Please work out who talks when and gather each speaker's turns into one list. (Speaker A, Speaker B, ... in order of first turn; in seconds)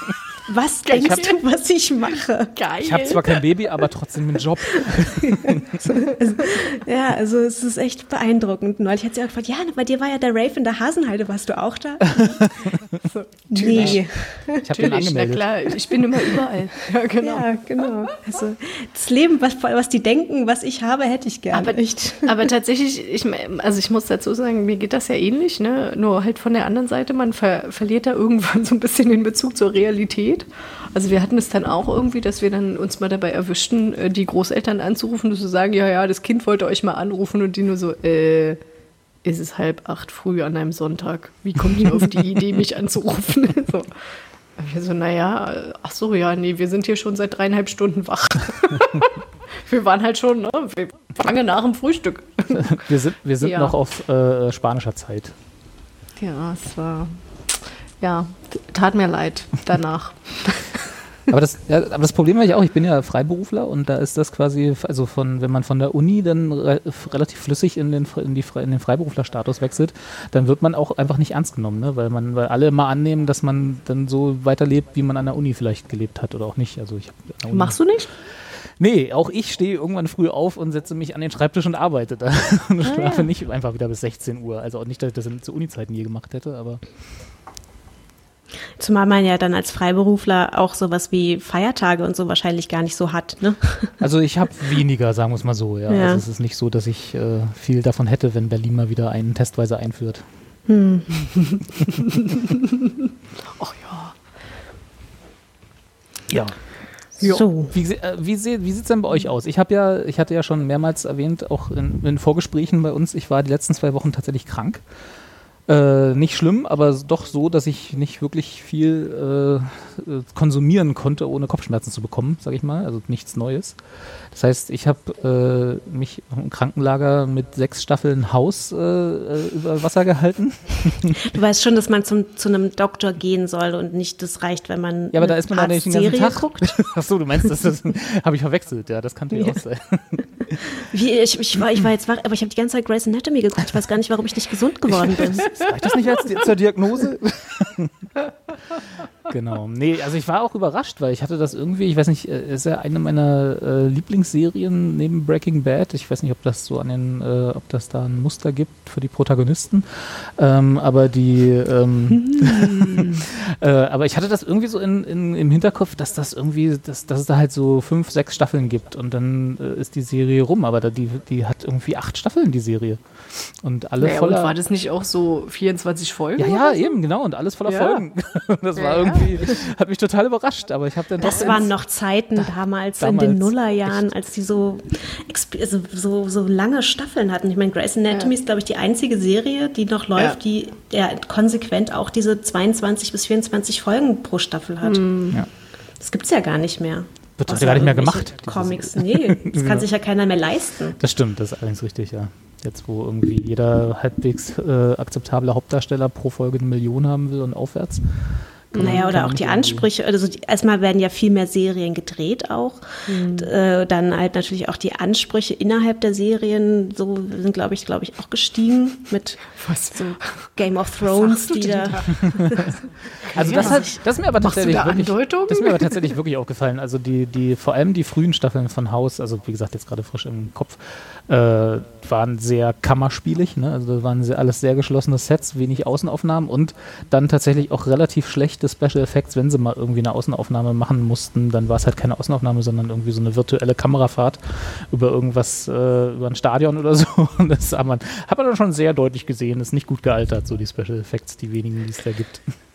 Speaker A: 0.5-2.5, 6.1-12.3, 13.5-14.7, 17.2-22.3, 88.8-94.0, 95.9-96.2, 100.7-101.3, 107.2-107.7, 131.2-136.8, 140.6-145.5, 181.2-195.0, 196.0-201.0, 208.8-219.4, 219.9-222.7, 223.4-223.8
Speaker B: 0.9-1.4, 2.5-3.4, 13.0-18.0, 21.5-38.6, 39.2-44.0, 44.6-52.8, 53.4-53.7, 56.2-60.9, 77.5-78.1, 82.8-83.3, 101.5-102.2, 103.6-104.1, 162.8-163.2, 174.0-176.9, 177.7-178.0, 178.8-179.5, 181.2-181.6, 194.8-195.4, 208.7-209.1, 213.1-213.5, 219.5-220.5, 221.0-226.1
Speaker C: 1.0-1.2, 2.8-5.8, 13.7-14.0, 14.5-15.6, 52.5-55.3, 61.3-77.8, 78.4-86.8, 94.0-100.2, 106.3-106.6, 107.7-114.8, 115.7-123.8, 124.3-131.2, 135.1-140.6, 145.1-148.1, 149.3-174.5, 176.4-181.7, 182.4-184.1, 197.4-199.9, 201.0-208.1, 208.7-209.9, 223.3-252.4